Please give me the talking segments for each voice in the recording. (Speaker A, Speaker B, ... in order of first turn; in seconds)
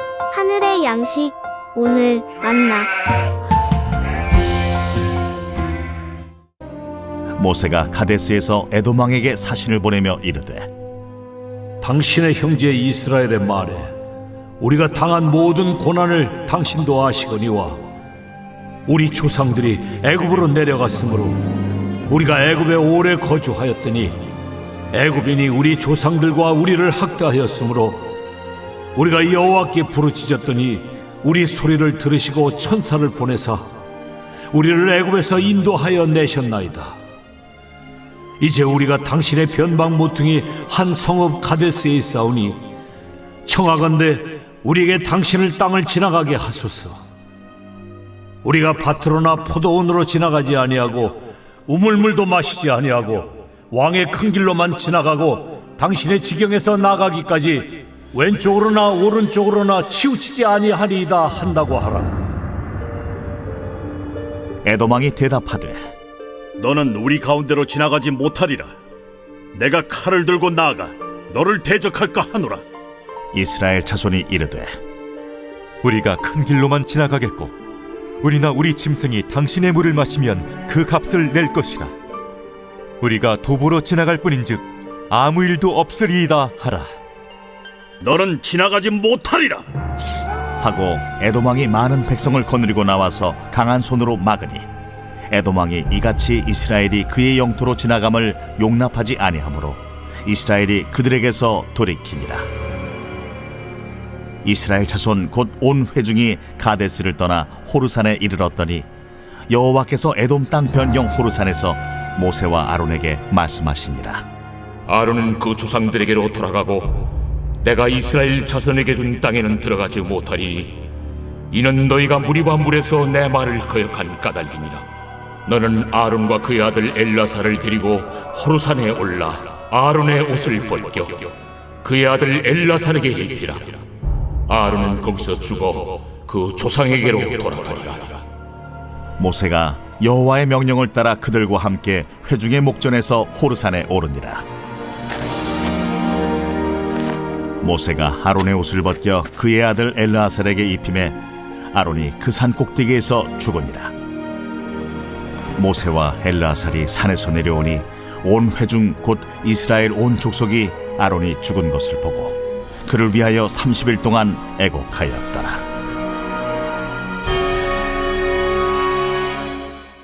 Speaker A: 0.3-2.9
Speaker B: 7.4-10.7, 64.7-65.8, 73.3-74.8, 90.6-94.7, 95.3-102.5, 104.4-108.9, 109.5-114.2, 139.2-144.4, 147.6-151.2, 151.7-153.9, 155.6-165.6
Speaker C: 11.8-13.9, 14.6-17.8, 18.9-21.4, 22.1-24.2, 24.9-28.1, 28.9-33.7, 34.5-37.0, 38.4-42.6, 43.5-47.0, 48.4-62.2
Speaker D: 66.6-68.7, 69.6-70.9, 71.5-72.6
Speaker E: 75.8-77.6, 78.2-81.9, 83.0-86.9, 88.0-89.6
Speaker F: 114.9-120.8, 121.5-124.9, 125.5-133.8, 134.5-138.2